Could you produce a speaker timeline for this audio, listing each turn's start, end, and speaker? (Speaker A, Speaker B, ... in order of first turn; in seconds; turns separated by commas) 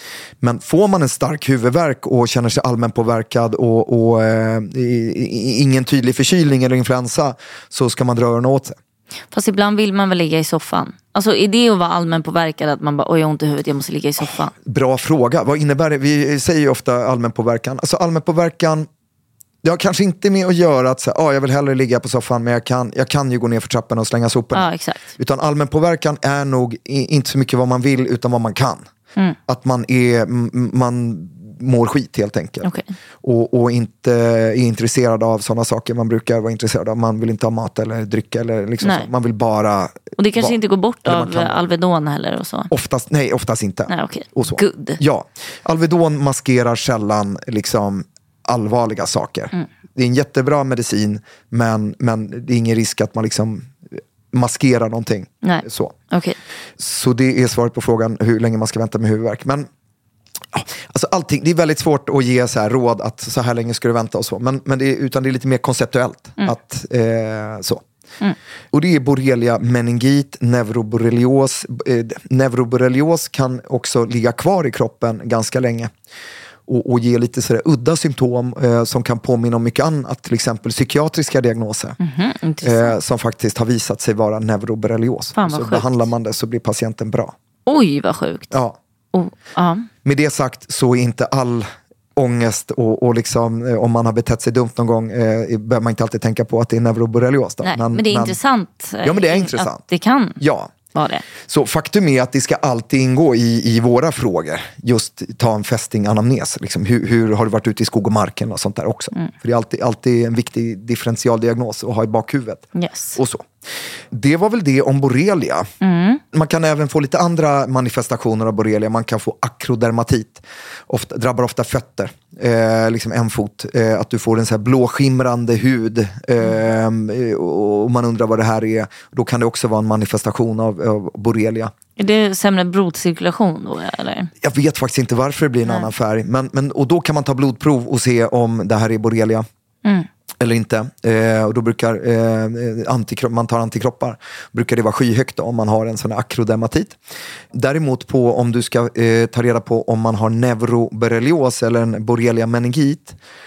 Speaker A: 0.4-8.8, Speaker B: 9.3-14.5, Speaker A: 14.2-18.9, Speaker A: 19.6-28.9, Speaker B: 24.5-25.1, Speaker A: 29.5-32.7, Speaker B: 32.6-32.9, Speaker A: 33.2-41.6, Speaker B: 38.8-39.1, Speaker B: 40.2-42.7, Speaker A: 42.7-53.7, Speaker B: 43.9-45.0, Speaker A: 54.3-55.9, Speaker B: 55.4-56.4, Speaker A: 56.8-59.7, Speaker A: 60.5-67.8, Speaker A: 68.7-75.9, Speaker A: 76.7-82.0, Speaker B: 82.0-83.0, Speaker A: 82.6-87.3, Speaker B: 85.4-85.9, Speaker B: 87.7-88.6, Speaker A: 88.5-88.8, Speaker B: 89.1-89.9, Speaker A: 90.0-98.4, Speaker B: 97.6-100.4, Speaker A: 99.0-99.8, Speaker A: 100.4-100.7, Speaker B: 100.9-101.2, Speaker A: 101.4-113.5, Speaker B: 112.7-113.2, Speaker A: 114.1-115.7, Speaker B: 115.8-116.2, Speaker A: 116.3-131.7, Speaker B: 132.0-134.3, Speaker A: 134.4-139.4, Speaker B: 135.6-135.9, Speaker A: 140.4-147.0, Speaker A: 147.5-153.2